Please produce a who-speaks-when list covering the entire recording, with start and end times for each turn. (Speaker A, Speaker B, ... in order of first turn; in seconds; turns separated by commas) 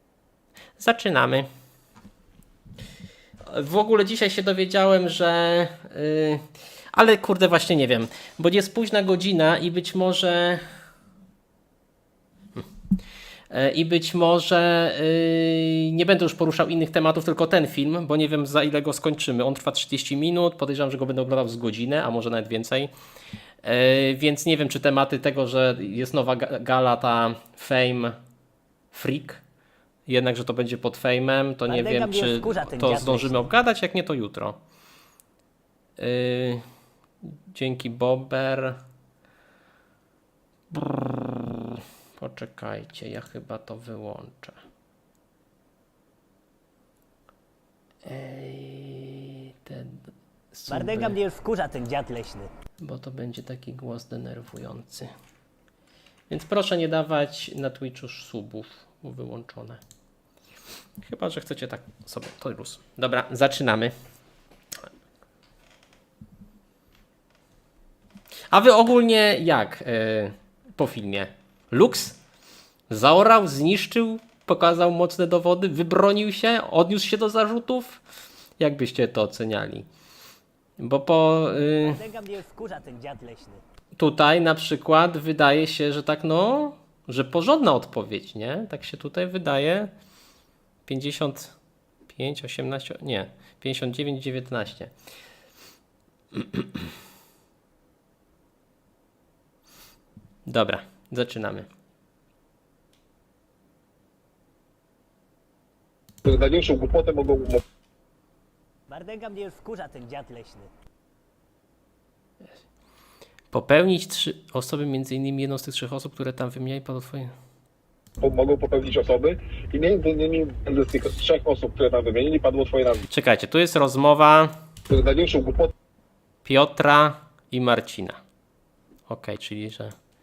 Speaker A: 0.8-1.5, Speaker A: 3.5-10.6, Speaker A: 13.5-22.9, Speaker A: 23.6-28.1, Speaker A: 28.9-29.4, Speaker A: 30.1-34.6, Speaker B: 31.7-33.5, Speaker A: 36.0-36.6, Speaker A: 37.5-38.8, Speaker A: 40.7-44.6, Speaker A: 48.0-50.0, Speaker A: 50.5-51.2, Speaker B: 50.7-52.5, Speaker A: 52.8-55.1, Speaker A: 56.3-59.8, Speaker A: 61.0-63.9, Speaker A: 68.5-72.2, Speaker A: 72.9-78.0, Speaker A: 78.6-79.9, Speaker A: 80.8-82.0, Speaker B: 81.8-83.6, Speaker A: 84.0-89.9, Speaker A: 90.8-91.5, Speaker A: 92.1-94.9, Speaker A: 96.3-96.6, Speaker A: 100.5-101.7, Speaker C: 106.2-107.6, Speaker B: 108.9-110.7, Speaker A: 113.5-117.3, Speaker C: 118.2-123.0, Speaker A: 123.1-124.5, Speaker C: 124.9-125.7, Speaker A: 126.4-128.2, Speaker A: 129.1-129.9